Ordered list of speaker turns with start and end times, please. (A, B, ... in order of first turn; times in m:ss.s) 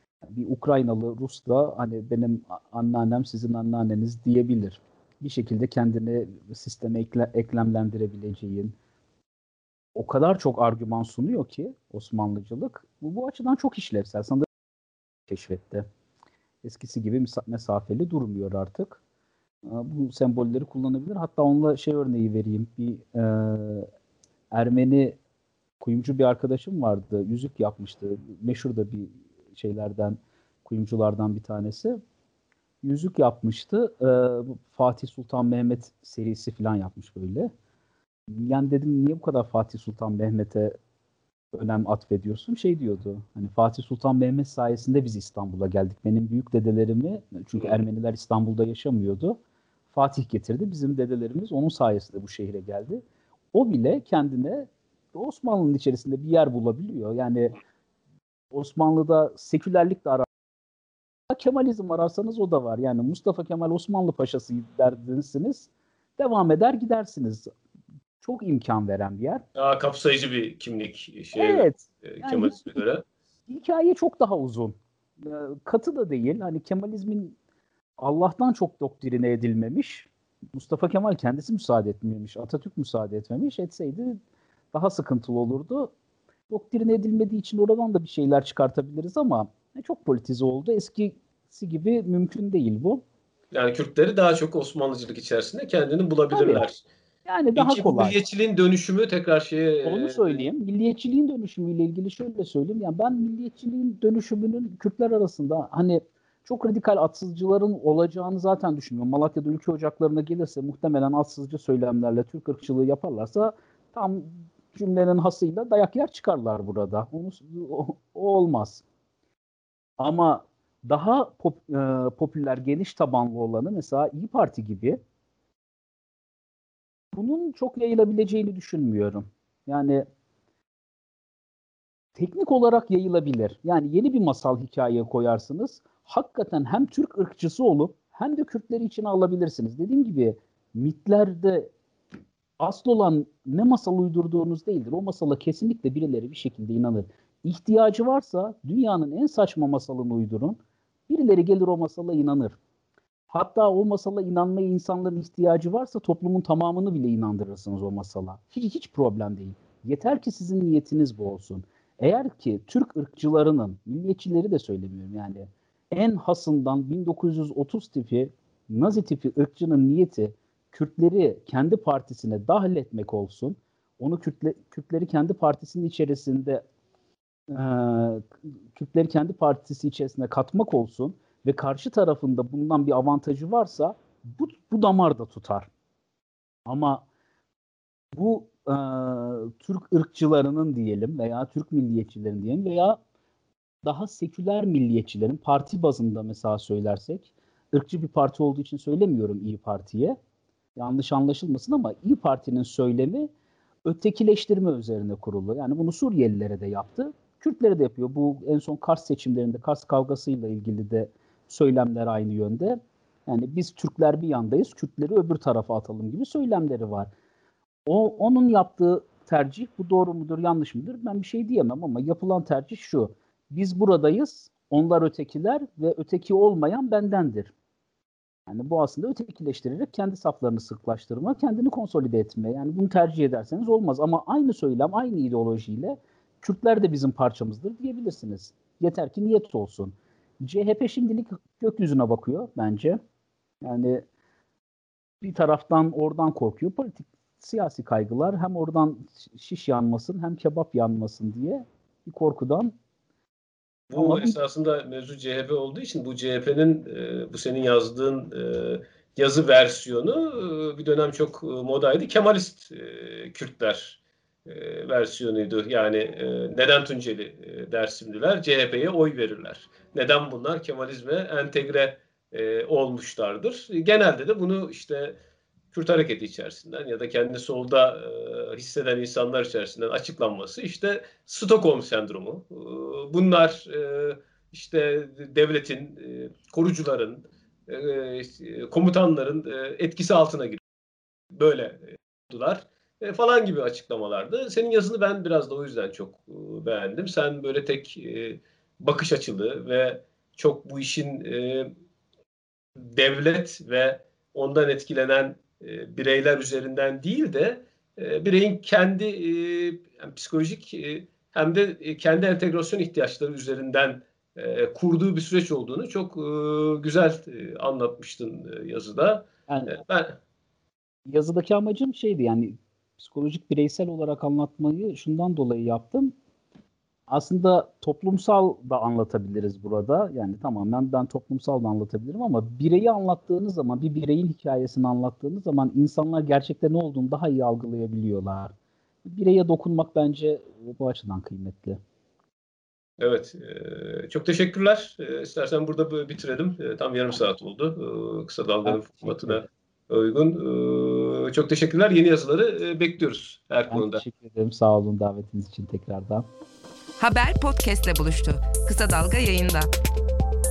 0:00.3-0:08.7 A
0:09.9-0:14.4 A
0:15.3-0:15.8 A
0:16.6-0:19.0 A
0:19.6-0:23.9 A
0:24.5-0:25.2 A
0:25.8-0:32.0 A
0:32.8-0:37.5 A
0:38.3-0:40.8 A
0:41.5-0:49.4 A
0:49.9-0:57.6 A
0:58.5-1:00.3 A
1:01.3-1:07.5 A
1:08.2-1:09.4 A
1:09.6-1:13.0 B
1:11.3-1:12.8 A
1:13.5-1:17.4 A
1:18.0-1:24.2 A
1:24.7-1:25.9 A
1:26.5-1:33.0 A
1:33.5-1:36.8 B
1:36.3-1:36.7 A
1:37.2-1:38.2 A
1:37.6-1:40.5 B
1:39.8-1:58.8 A
2:00.0-2:05.0 A
2:07.1-2:10.0 A
2:12.1-2:21.7 A
2:22.6-2:32.6 A
2:33.3-2:56.6 A
2:57.5-3:05.7 A
3:06.7-3:07.0 A
3:08.1-3:13.0 A
3:13.8-3:20.2 A
3:20.8-3:23.3 A
3:23.8-3:37.1 A
3:37.8-3:47.5 A
3:48.5-4:03.0 A
4:03.6-4:04.0 A
4:05.2-4:12.7 A
4:13.9-4:35.2 B
4:13.9-4:14.4 A
4:35.7-4:50.6 B
4:51.3-5:01.7 B
5:02.8-5:20.2 B
5:19.5-5:19.8 A
5:21.1-5:26.1 A
5:27.1-5:38.5 A
5:39.0-5:41.8 A
5:43.0-5:54.0 B
5:48.6-5:49.4 A
5:53.7-5:56.3 A
5:57.0-5:59.7 C